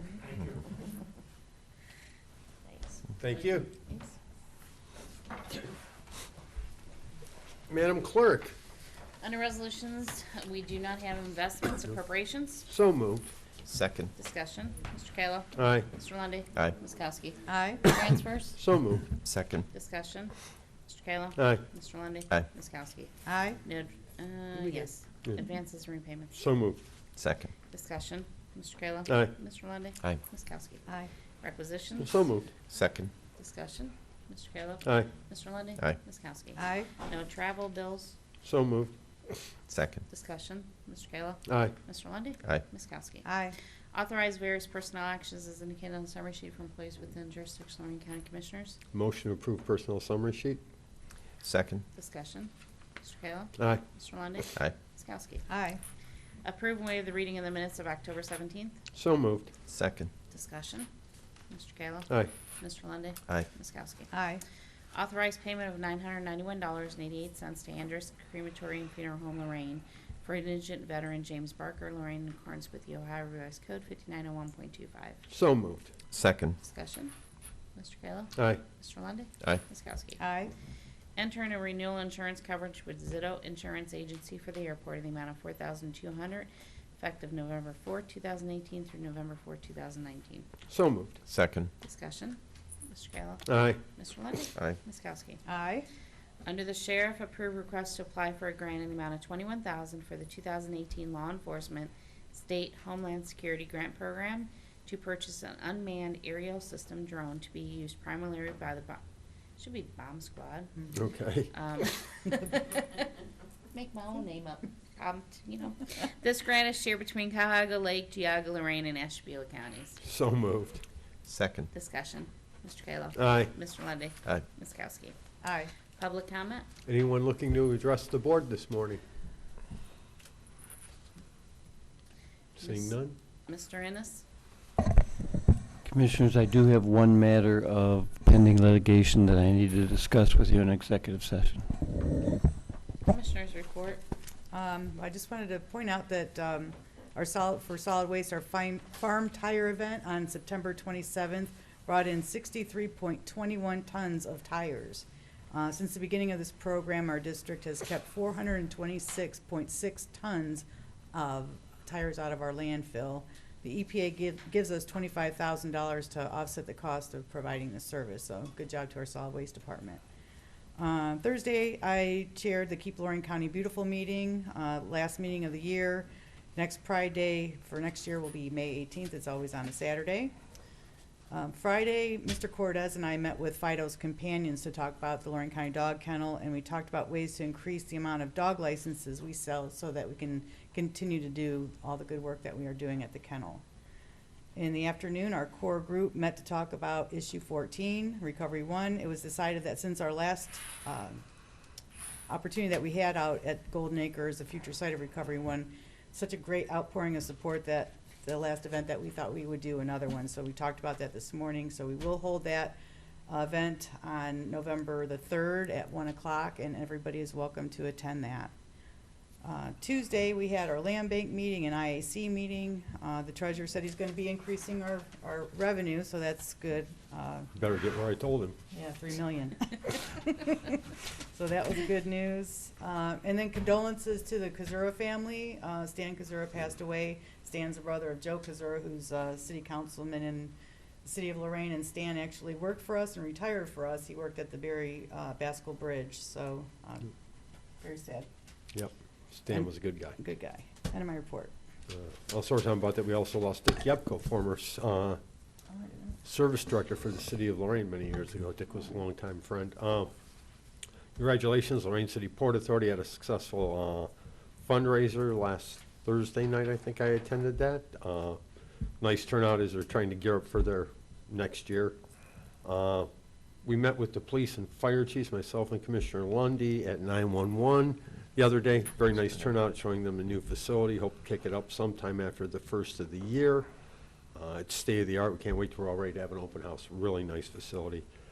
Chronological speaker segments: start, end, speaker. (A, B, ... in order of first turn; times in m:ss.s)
0:03.2-0:03.7 A
0:03.8-0:04.1 B
0:07.7-0:08.5 A
0:09.2-0:12.7 B
0:12.7-0:13.3 A
0:13.6-0:14.1 C
0:14.2-0:18.6 B
0:15.5-0:15.9 A
0:17.5-0:17.8 D
0:18.6-0:19.1 A
0:19.2-0:19.7 C
0:19.7-0:26.4 B
0:21.4-0:21.6 A
0:23.2-0:23.6 D
0:26.3-0:26.8 A
0:27.2-0:27.5 C
0:27.7-0:30.8 B
0:29.1-0:29.3 A
0:30.9-0:31.1 D
0:31.4-0:32.3 B
0:32.0-0:32.5 A
0:32.7-0:33.1 C
0:33.4-0:38.1 B
0:34.8-0:35.1 A
0:36.6-0:36.9 D
0:38.4-0:38.9 A
0:39.7-0:40.0 C
0:40.1-0:43.3 B
0:41.4-0:41.8 A
0:43.2-0:43.6 D
0:43.9-0:48.8 B
0:48.9-0:50.6 A
0:51.4-0:51.8 C
0:51.9-0:55.4 B
0:53.6-0:53.8 A
0:55.5-0:55.8 D
0:56.4-0:58.8 B
0:58.9-0:59.5 A
0:59.7-1:00.1 C
1:00.3-1:00.9 B
1:01.5-1:04.1 B
1:04.1-1:04.4 D
1:04.9-1:15.2 B
1:15.3-1:15.9 A
1:16.1-1:16.6 C
1:16.6-1:17.1 B
1:17.8-1:20.2 B
1:18.3-1:18.6 A
1:20.2-1:20.5 D
1:21.2-1:30.5 B
1:30.7-1:31.2 A
1:31.3-1:31.7 C
1:31.8-1:35.4 B
1:33.5-1:33.8 A
1:35.4-1:35.9 D
1:36.4-1:49.0 B
1:49.6-1:50.7 B
1:50.9-1:51.9 A
1:51.5-1:53.0 B
1:53.7-2:00.0 B
2:00.0-2:00.8 A
2:01.3-2:01.7 C
2:01.7-2:05.2 B
2:03.2-2:03.5 A
2:05.4-2:05.7 D
2:06.0-2:06.7 B
2:06.8-2:09.0 A
2:12.6-2:13.2 A
2:12.6-2:14.2 B
2:15.8-2:21.6 E
2:23.1-2:24.0 B
2:24.5-2:50.0 D
2:50.8-3:00.3 D
3:01.3-3:13.6 D
3:14.6-3:21.2 D
3:22.3-3:38.5 D
3:39.4-3:47.5 D
3:47.6-3:48.6 A
3:48.7-4:07.1 D
4:07.8-4:08.3 D
4:08.7-4:10.2 A
4:09.5-4:11.5 D
4:11.9-4:15.2 A
4:16.2-4:20.1 A
4:21.2-4:28.4 A
4:29.0-4:32.0 A
4:32.6-4:33.1 A
4:33.6-4:43.7 A
4:44.3-4:48.0 A